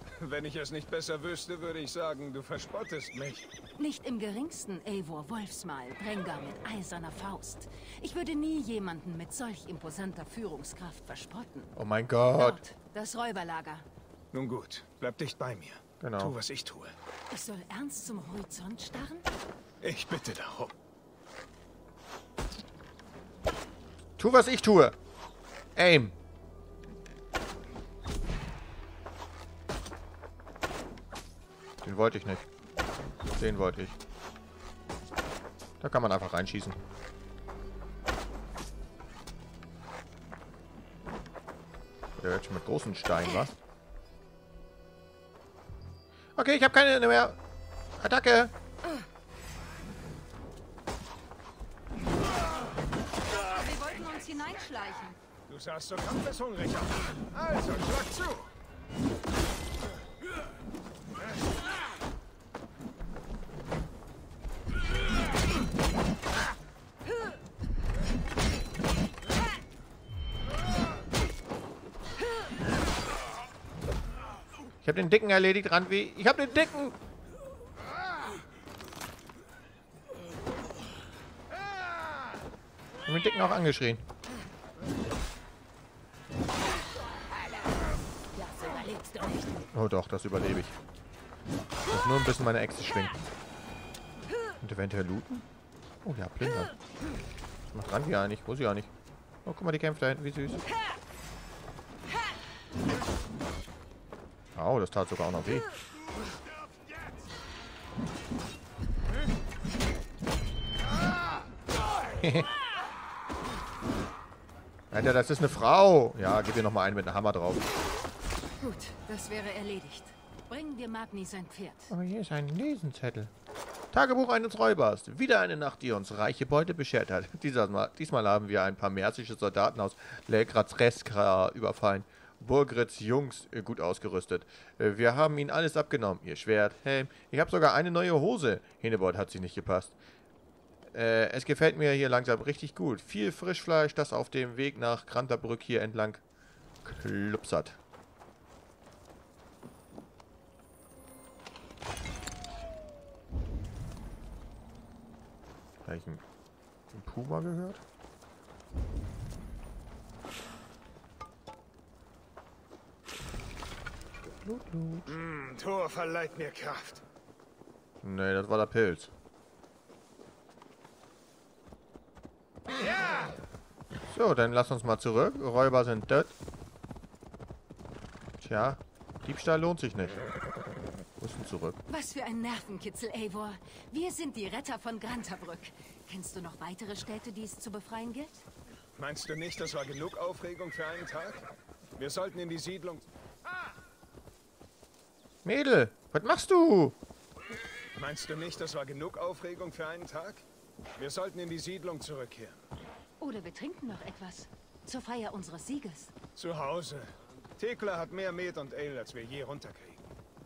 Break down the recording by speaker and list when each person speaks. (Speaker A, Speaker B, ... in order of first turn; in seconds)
Speaker A: 0.2-3.5, 14.3-16.9, 19.8-20.7, 55.5-58.5, 165.1-167.0, 188.9-193.1, 197.9-200.4, 201.0-202.7, 206.3-210.0
Speaker B: 3.8-11.7, 12.3-13.8, 17.3-19.3, 53.3-55.1, 88.3-89.6, 118.6-121.9, 181.9-188.4, 203.2-206.1
Speaker C: 11.8-12.6, 16.0-16.4, 24.2-24.9, 25.7-26.1, 31.8-32.5, 33.4-34.0, 35.8-36.8, 42.2-43.5, 46.4-47.4, 48.0-48.5, 74.8-77.0, 83.0-84.0, 89.7-90.7, 91.9-93.2, 94.6-95.4, 96.0-96.7, 97.7-98.9, 99.4-100.6, 104.5-105.7, 112.2-112.5, 114.9-117.6, 121.9-123.3, 123.9-139.9, 140.9-146.2, 146.8-147.8, 155.8-156.2, 156.9-157.8, 164.4-165.1, 168.0-169.1, 174.1-176.3, 178.4-180.2, 181.2-181.8, 195.4-196.9